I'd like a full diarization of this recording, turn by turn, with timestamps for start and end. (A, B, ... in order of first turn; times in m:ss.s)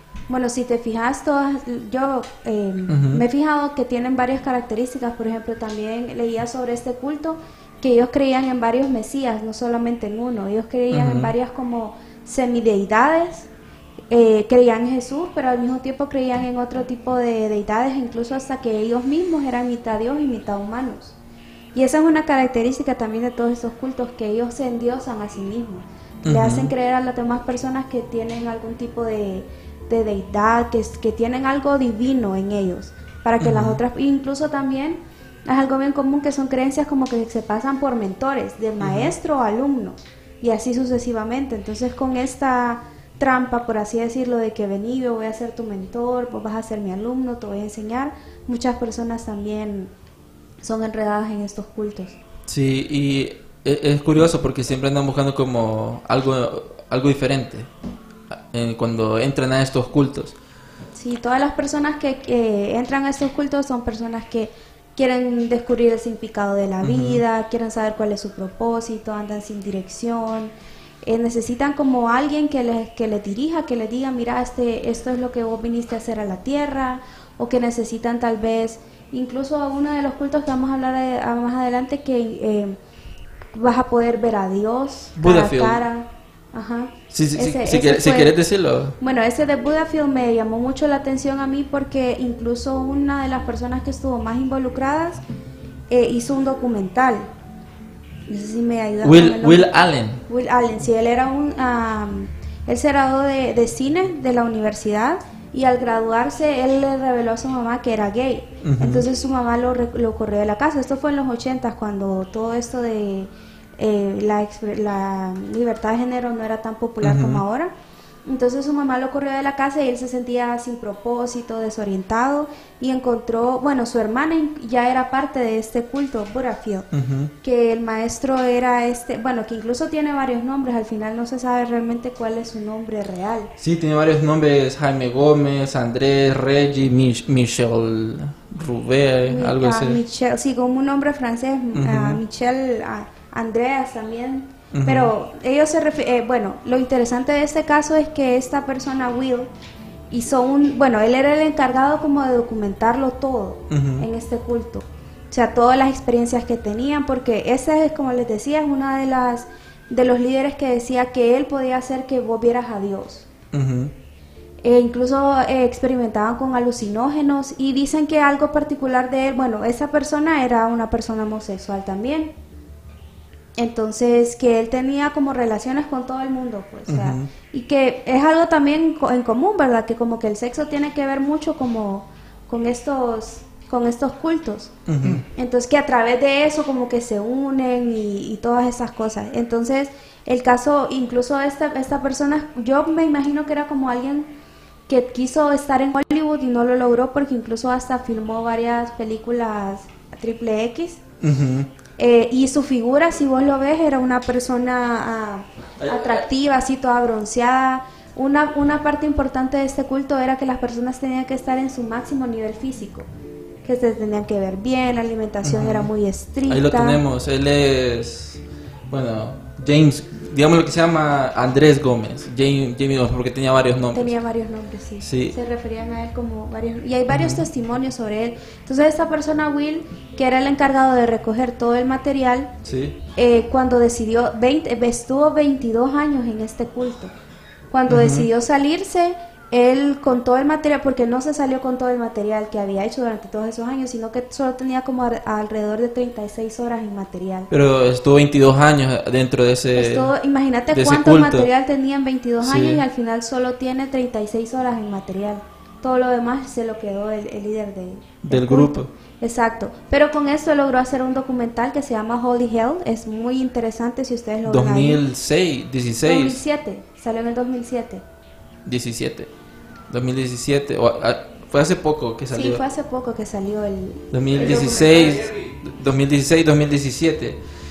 0:00.3-0:13.5 A
0:02.9-0:03.2 B
0:10.9-0:11.3 B
0:14.1-0:21.2 A
0:21.7-0:49.9 A
0:26.2-0:26.7 B
0:33.4-0:33.8 B
0:38.8-0:39.1 B
0:50.6-0:52.2 A
0:52.5-0:57.7 B
0:58.3-1:00.3 B
1:01.0-1:10.5 A
1:06.8-1:07.2 B
1:11.0-1:22.8 A
1:23.5-1:28.3 A
1:25.2-1:25.8 B
1:27.1-1:28.9 B
1:29.0-1:35.2 A
1:35.9-1:37.3 A
1:38.3-1:39.7 A
1:39.0-1:40.2 B
1:40.3-1:57.7 A
1:48.6-1:49.0 B
1:57.0-1:57.4 B
1:58.2-2:06.8 A
2:06.9-2:07.3 B
2:07.4-2:13.5 A
2:13.6-2:20.0 B
2:19.3-2:29.5 A
2:21.7-2:22.2 B
2:24.7-2:25.1 B
2:30.1-2:43.3 A
2:33.7-2:34.0 B
2:43.5-2:43.9 B
2:44.6-2:52.3 A
2:53.6-3:04.7 A
2:56.9-2:57.3 B
3:04.9-3:05.2 B
3:05.3-3:14.3 A
3:14.9-3:21.0 A
3:21.2-3:21.7 B
3:22.0-3:33.1 A
3:25.8-3:26.2 B
3:33.6-3:37.0 A
3:35.4-3:35.9 B
3:36.5-3:44.1 B
3:43.9-3:52.5 A
3:45.0-3:45.3 B
3:47.1-3:47.4 B
3:52.6-3:53.0 B
3:53.2-3:57.1 A
3:57.7-4:07.5 A
3:57.9-3:58.3 B
4:07.5-4:10.1 B
4:09.8-4:25.0 A
4:10.7-4:11.5 B
4:12.4-4:12.8 B
4:18.2-4:18.9 B
4:24.4-4:26.4 B
4:26.0-4:28.0 A
4:28.6-4:29.3 B
4:29.9-4:32.6 B
4:32.3-4:35.2 A
4:34.1-4:37.4 B